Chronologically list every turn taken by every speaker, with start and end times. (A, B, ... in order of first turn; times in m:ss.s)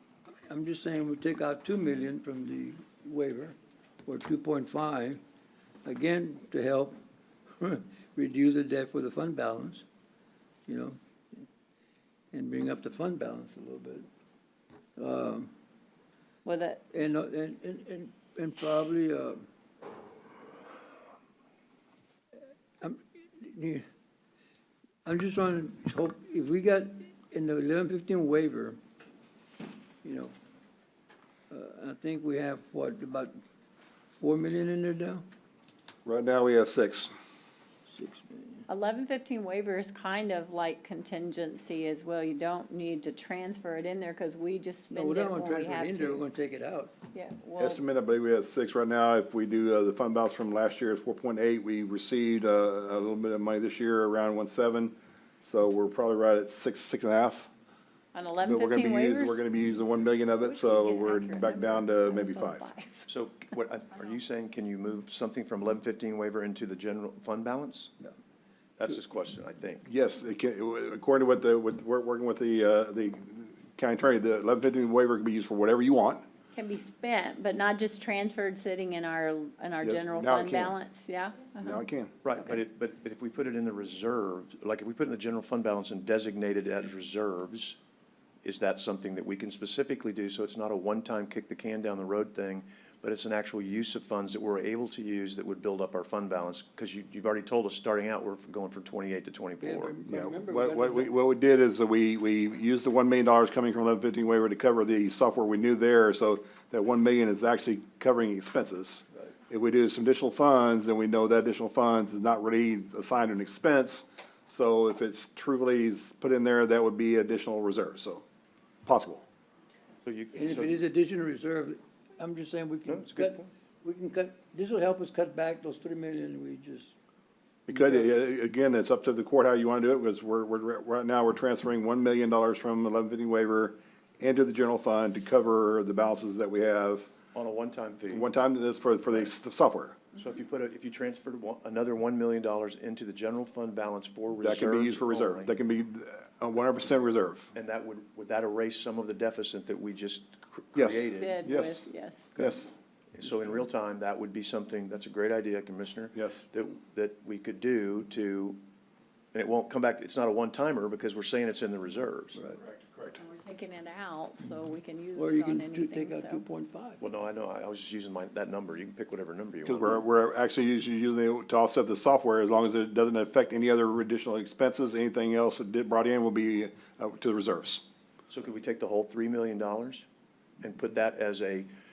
0:00.5-0:05.2 A
0:05.8-0:07.0 A
0:07.6-0:09.8 A
0:10.7-0:11.0 A
0:12.3-0:14.1 A
0:15.0-0:15.5 A
0:16.4-0:16.8 B
0:16.9-0:19.4 A
0:22.8-0:23.8 A
0:25.0-0:28.8 A
0:30.0-0:30.3 A
0:31.5-0:33.4 A
0:34.2-0:35.2 A
0:36.0-0:37.1 C
0:37.9-0:38.6 A
0:38.7-0:46.2 B
0:44.9-0:46.9 A
0:47.1-0:47.8 B
0:47.6-0:57.5 C
0:58.1-1:03.1 B
0:58.4-1:02.7 C
1:03.1-1:07.9 D
1:08.8-1:09.9 D
1:09.8-1:16.2 C
1:16.5-1:21.8 B
1:19.8-1:20.8 C
1:21.6-1:22.2 C
1:22.2-1:27.8 D
1:28.4-1:39.9 D
1:39.6-1:41.1 A
1:40.1-1:58.2 C
1:58.8-1:59.2 C
2:00.0-2:00.8 D
2:00.3-2:06.9 A
2:02.9-2:03.5 D
2:07.7-2:17.1 C
2:07.7-2:08.1 A
2:17.3-2:18.3 D
2:18.0-2:20.0 C
2:19.0-2:19.3 D
2:20.1-2:25.5 D
2:24.4-2:27.5 C
2:27.5-2:31.4 D
2:30.7-2:32.7 C
2:31.1-2:32.3 B
2:33.1-2:38.6 D
2:36.1-2:36.4 C
2:39.3-2:42.4 D
2:42.6-2:43.2 C
2:43.2-2:46.4 B
2:45.1-2:47.0 A
2:47.0-2:50.0 D
2:49.6-2:57.8 C
2:58.3-3:00.1 D
3:00.6-3:01.7 D